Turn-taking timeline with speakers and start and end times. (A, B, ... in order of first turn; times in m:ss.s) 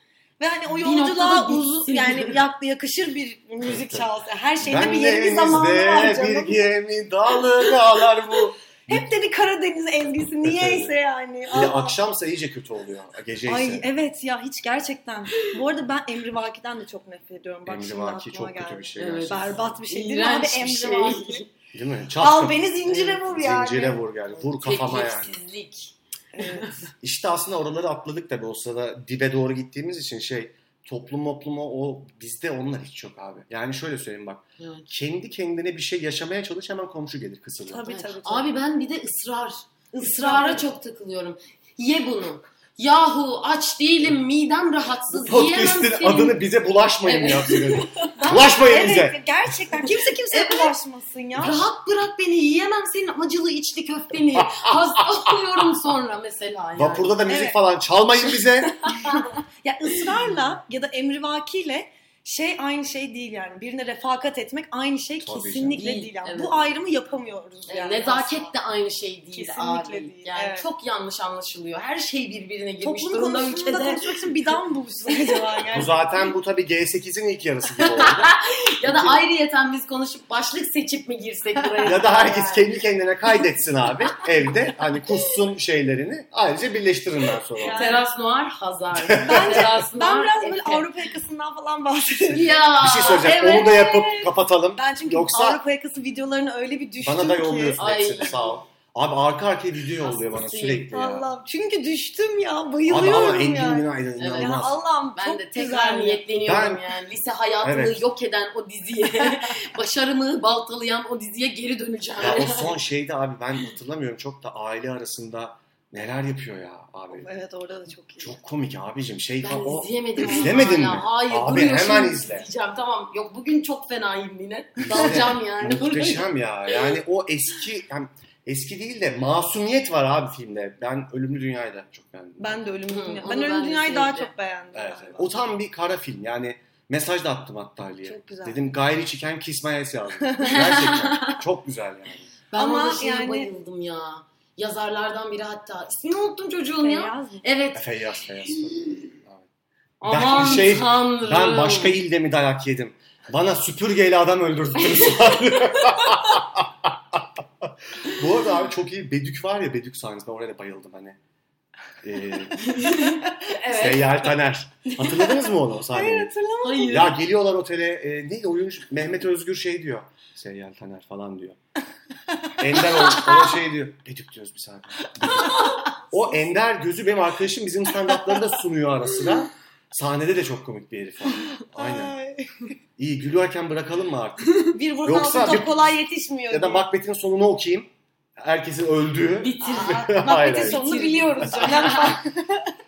0:00.4-0:06.7 A
0:00.7-0:02.4 B
0:03.6-0:09.0 C
0:08.9-0:12.0 A
0:10.4-0:10.9 C
0:11.5-0:13.9 C
0:13.5-0:21.4 A
0:17.7-0:19.6 C
0:19.0-0:21.5 B
0:21.7-0:25.4 C
0:22.2-0:24.0 A
0:22.9-0:23.2 B
0:24.3-0:26.8 B
0:26.4-0:26.8 A
0:27.0-0:38.0 C
0:34.6-0:34.9 B
0:37.7-0:38.5 A
0:37.9-0:46.4 B
0:39.9-0:40.6 A
0:45.1-0:49.2 C
0:47.0-0:48.4 B
0:48.3-0:51.6 A
0:49.9-0:50.7 B
0:51.4-0:57.2 B
0:54.4-0:54.8 C
0:56.8-0:58.8 C
0:57.3-0:57.6 A
0:58.9-0:59.3 B
0:59.0-1:08.5 A
1:05.2-1:05.8 C
1:05.8-1:06.7 B
1:07.7-1:14.3 B
1:09.3-1:10.7 A
1:12.8-1:16.1 A
1:15.1-1:15.6 B
1:15.7-1:18.3 C
1:18.0-1:22.7 B
1:18.8-1:19.2 C
1:21.6-1:22.0 A
1:21.9-1:27.8 C
1:27.6-1:28.0 A
1:27.7-1:31.0 B
1:29.0-1:29.7 C
1:29.2-1:37.8 A
1:32.3-1:33.6 B
1:32.8-1:35.6 C
1:37.0-1:41.3 C
1:37.8-1:38.6 B
1:40.0-1:40.9 B
1:40.9-1:46.2 A
1:42.9-1:44.8 C
1:44.2-1:52.8 B
1:46.4-1:46.8 C
1:47.6-1:48.0 C
1:52.2-1:57.3 C
1:57.1-1:58.4 A
1:58.2-2:02.5 C
1:59.4-2:07.0 B
1:59.5-2:00.6 A
2:04.8-2:12.6 C
2:12.4-2:15.3 A
2:12.9-2:14.3 B
2:14.7-2:22.3 C
2:18.0-2:18.7 A
2:20.2-2:20.6 A
2:20.5-2:21.4 B
2:22.5-2:27.9 B
2:22.6-2:23.5 A
2:26.8-2:27.4 A
2:27.7-2:29.5 C
2:28.4-2:29.1 B
2:30.0-2:32.0 B
2:30.0-2:41.2 C
2:35.0-2:36.2 B
2:42.0-2:42.7 C
2:42.6-2:45.4 B
2:43.7-2:46.3 C
2:45.9-2:47.1 A
2:46.6-2:47.2 B
2:46.9-2:51.6 C
2:52.6-3:02.2 C
2:53.0-2:53.4 A
2:55.1-2:56.4 A
3:01.5-3:02.7 A
3:03.0-3:05.9 C
3:04.7-3:06.9 A
3:06.5-3:10.9 C
3:09.4-3:12.2 B
3:09.6-3:12.7 A
3:11.5-3:11.8 C